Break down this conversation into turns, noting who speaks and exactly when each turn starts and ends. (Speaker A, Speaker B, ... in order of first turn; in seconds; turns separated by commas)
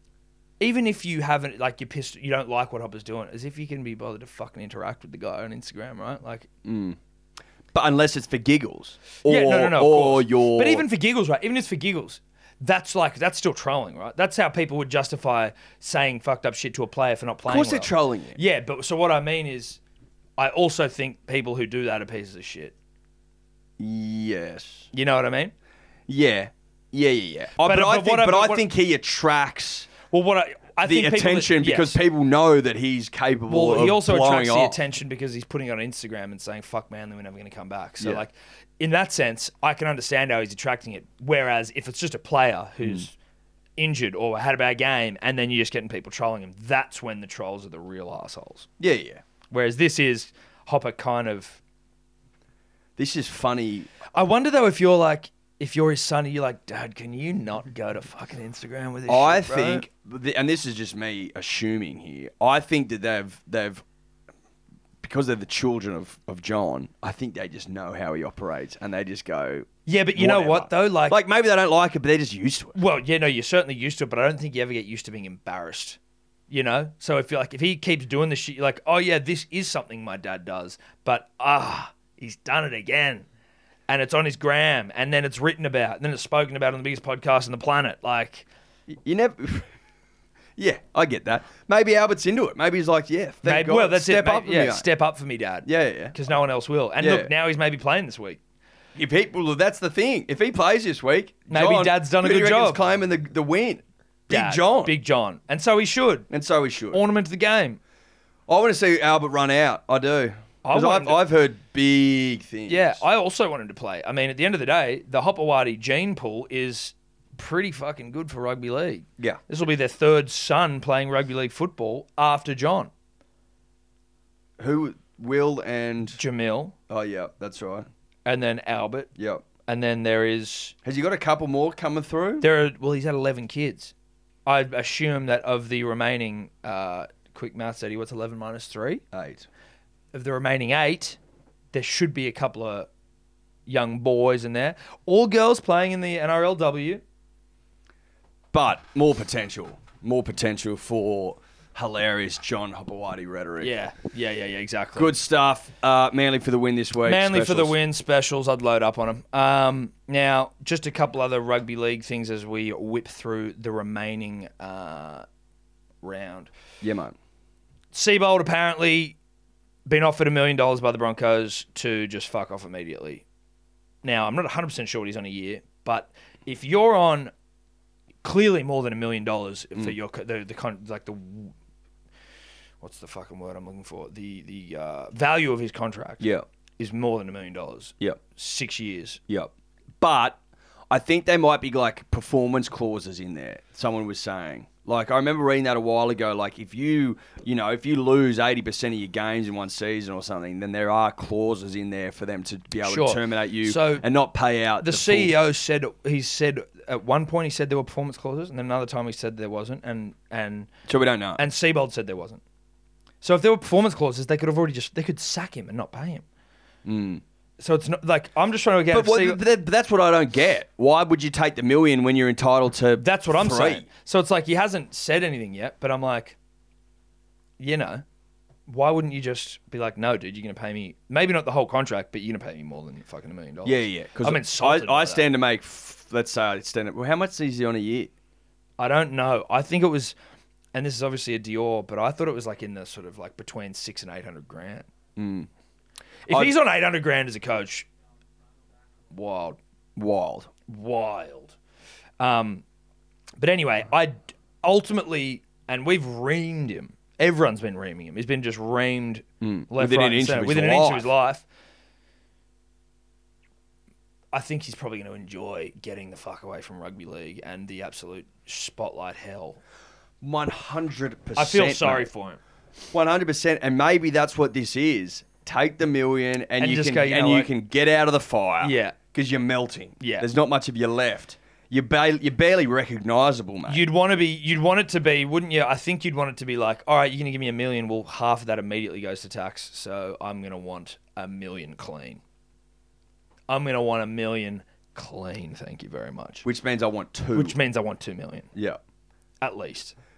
Speaker A: 0.6-6.5, Speaker B: 6.7-7.0, Speaker B: 7.7-10.8, Speaker A: 9.2-19.8, Speaker B: 17.5-18.4, Speaker A: 20.4-22.7, Speaker B: 23.8-24.9, Speaker A: 24.9-25.5, Speaker B: 26.1-29.9, Speaker A: 27.6-28.6, Speaker A: 30.1-32.0, Speaker B: 30.9-34.8, Speaker A: 33.5-43.1, Speaker A: 43.8-48.7, Speaker B: 48.8-49.2, Speaker A: 49.5-51.6, Speaker B: 53.0-53.9, Speaker A: 54.1-59.9, Speaker B: 59.1-63.8, Speaker B: 65.0-72.8, Speaker A: 69.9-71.2, Speaker A: 72.7-76.0, Speaker A: 76.5-83.2, Speaker A: 83.9-88.5, Speaker B: 88.9-89.7, Speaker B: 90.6-94.9, Speaker A: 93.4-98.4, Speaker B: 95.7-96.2, Speaker B: 97.0-97.3, Speaker B: 99.0-104.9, Speaker A: 101.5-102.8, Speaker A: 104.3-106.3, Speaker B: 106.3-107.0, Speaker A: 106.9-107.8, Speaker B: 108.5-113.0, Speaker A: 110.7-111.2, Speaker A: 112.7-122.9, Speaker B: 124.6-126.2, Speaker A: 126.2-126.8, Speaker B: 126.9-127.9, Speaker A: 128.2-129.1, Speaker B: 129.2-129.4, Speaker A: 129.7-130.8, Speaker B: 130.8-132.5, Speaker A: 132.4-133.9, Speaker A: 134.5-139.0, Speaker B: 139.1-139.5, Speaker A: 140.1-141.2, Speaker A: 141.7-142.9, Speaker A: 143.7-147.0, Speaker B: 148.5-153.7, Speaker A: 153.6-155.1, Speaker B: 155.0-157.8, Speaker A: 157.1-165.3, Speaker A: 166.0-166.5, Speaker B: 166.8-167.2, Speaker A: 167.9-169.2, Speaker A: 169.9-173.2, Speaker A: 174.0-177.3, Speaker A: 178.2-181.5, Speaker A: 182.8-186.3, Speaker A: 186.8-189.2, Speaker B: 189.3-190.4, Speaker B: 190.9-205.4, Speaker A: 202.8-204.0, Speaker A: 204.8-210.7, Speaker B: 210.9-211.4, Speaker A: 211.4-212.4, Speaker A: 213.2-216.2, Speaker B: 216.8-217.2, Speaker A: 217.6-219.4, Speaker B: 218.9-223.9, Speaker A: 223.0-226.4, Speaker A: 227.6-228.0, Speaker A: 228.7-235.2, Speaker B: 233.7-238.1, Speaker A: 238.8-240.2, Speaker A: 240.7-244.9, Speaker B: 245.2-245.5, Speaker A: 246.3-247.9, Speaker B: 246.3-246.5, Speaker A: 249.1-249.6, Speaker B: 250.0-250.5, Speaker A: 250.7-251.6, Speaker A: 252.2-252.6, Speaker A: 253.4-261.4, Speaker B: 259.4-261.1, Speaker A: 264.3-269.6, Speaker B: 270.2-272.1, Speaker A: 271.4-272.4, Speaker B: 272.9-283.9, Speaker A: 276.6-277.5, Speaker A: 278.6-279.0, Speaker A: 280.0-280.3, Speaker A: 283.7-292.2, Speaker A: 293.5-296.4, Speaker B: 296.4-297.6, Speaker A: 297.3-298.5, Speaker A: 299.4-299.9